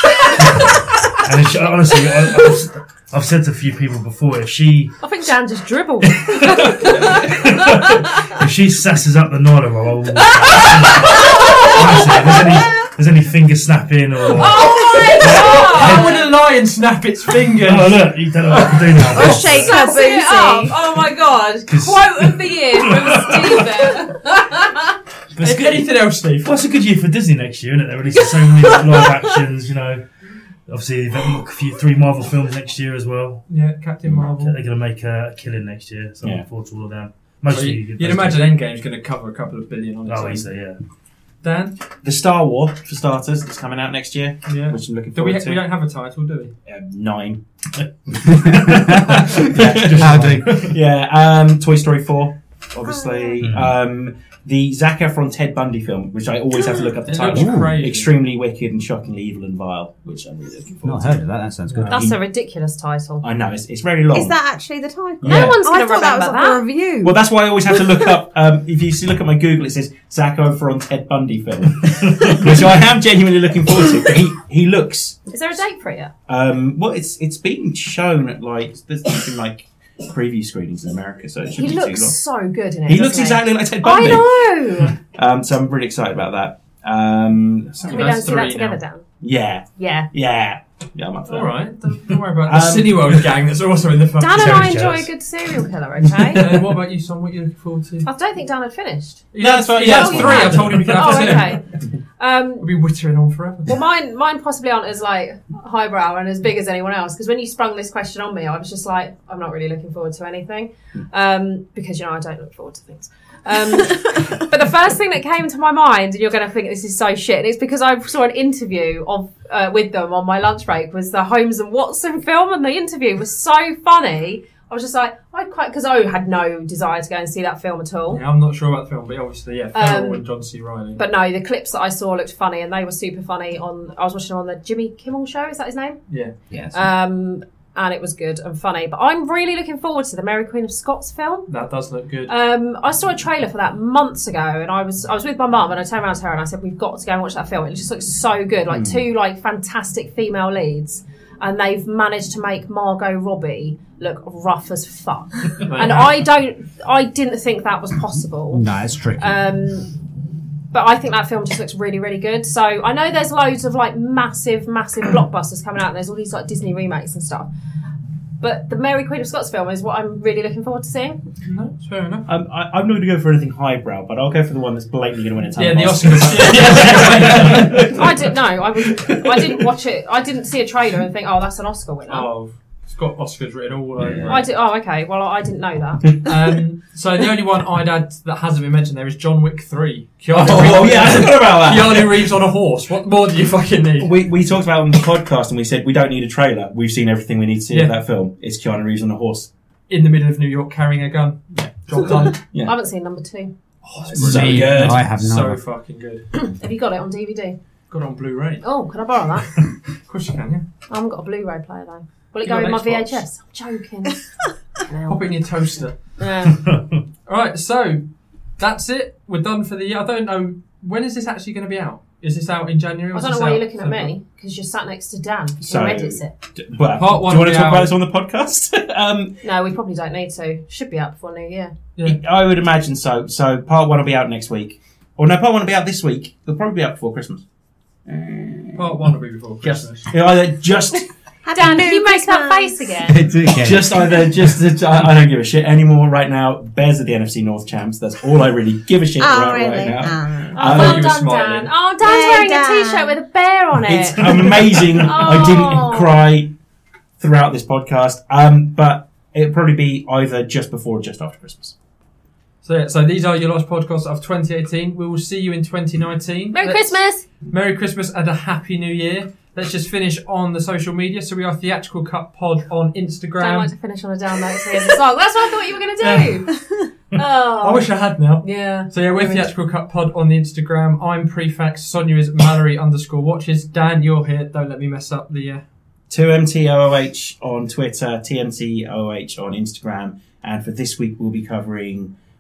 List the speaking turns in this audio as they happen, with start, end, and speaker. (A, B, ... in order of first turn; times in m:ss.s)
0:00.3-0:05.0 A
0:05.0-0:08.3 B
0:06.1-0:16.3 A
0:10.3-0:12.9 B
0:14.3-0:16.3 B
0:15.2-0:19.4 C
0:17.6-0:19.8 A
0:19.1-0:20.8 D
0:19.4-0:24.9 B
0:21.7-0:23.9 A
0:25.4-0:25.9 A
0:25.4-0:26.6 C
0:26.4-0:30.0 A
0:28.6-0:29.2 B
0:30.7-0:33.4 A
0:33.5-0:34.6 C
0:34.1-0:38.4 A
0:37.5-0:40.5 C
0:40.1-0:40.8 A
0:41.4-0:41.8 C
0:42.0-0:45.6 E
0:44.5-0:46.5 C
0:46.7-0:47.4 E
0:47.8-0:50.8 A
0:48.3-0:50.7 F
0:49.4-1:01.2 E
0:52.9-0:53.4 D
0:53.4-0:53.8 A
0:57.1-0:58.1 C
0:57.3-0:57.8 F
1:00.8-1:02.0 F
1:01.9-1:02.2 E
1:01.9-1:03.2 B
1:03.2-1:04.4 E
1:04.1-1:07.2 D
1:05.2-1:05.6 E
1:05.3-1:06.6 B
1:07.0-1:15.3 E
1:11.9-1:12.5 A
1:15.3-1:16.1 B
1:16.3-1:22.2 E
1:21.5-1:25.0 B
1:22.9-1:24.5 E
1:25.1-1:28.2 E
1:27.8-1:29.1 B
1:27.9-1:28.8 C
1:29.2-1:31.6 E
1:29.8-1:30.1 B
1:31.3-1:34.8 C
1:32.4-1:33.2 E
1:34.2-1:36.5 B
1:34.3-1:35.1 A
1:36.4-1:38.1 C
1:38.0-1:42.7 B
1:39.3-1:41.6 C
1:39.4-1:41.1 E
1:42.6-1:43.8 C
1:43.7-2:08.2 B
2:08.1-2:11.0 C
2:09.8-2:10.2 B
2:11.0-2:16.0 B
2:16.5-2:16.9 F
2:16.7-2:21.5 B
2:21.5-2:22.3 C
2:22.3-2:38.7 B
2:35.6-2:36.2 C
2:38.5-2:39.4 F
2:39.2-2:40.0 B
2:40.7-2:47.5 B
2:48.4-2:51.2 B
2:51.4-2:52.3 C
2:52.3-2:59.5 E
2:55.6-2:57.9 C
2:57.8-3:02.3 B
3:02.1-3:04.5 C
3:04.0-3:04.3 F
3:04.2-3:06.1 B
3:06.0-3:06.3 E
3:06.2-3:14.1 C
3:10.3-3:12.2 E
3:14.0-3:19.5 E
3:19.9-3:22.4 C
3:21.6-3:22.8 E
3:22.6-3:23.5 B
3:23.8-3:26.3 C
3:24.0-3:25.0 E
3:24.1-3:25.6 F
3:26.4-3:27.6 B
3:27.9-3:28.7 C
3:28.6-3:29.7 B
3:30.0-3:30.6 C
3:30.9-3:34.2 B
3:32.4-3:33.2 C
3:34.9-3:35.3 B
3:35.0-3:36.1 C
3:36.2-3:36.6 B
3:36.5-3:37.0 A
3:37.3-3:38.0 C
3:38.6-3:44.1 C
3:43.1-3:46.3 B
3:45.6-3:49.4 E
3:47.0-3:47.9 C
3:49.4-3:51.8 B
3:52.0-3:57.4 E
3:58.1-4:01.1 E
3:58.8-4:00.1 C
4:01.4-4:03.1 D
4:01.5-4:03.3 B
4:03.1-4:04.5 F
4:03.5-4:11.2 E
4:09.2-4:10.9 D
4:10.6-4:16.2 B
4:10.6-4:11.7 C
4:12.0-4:13.2 D
4:13.8-4:16.5 E
4:17.2-4:21.8 E
4:22.6-4:33.7 C
4:26.5-4:27.2 B
4:33.4-4:36.5 B
4:36.0-4:36.4 C
4:37.1-4:39.5 B
4:37.6-4:45.6 C
4:46.1-4:52.1 E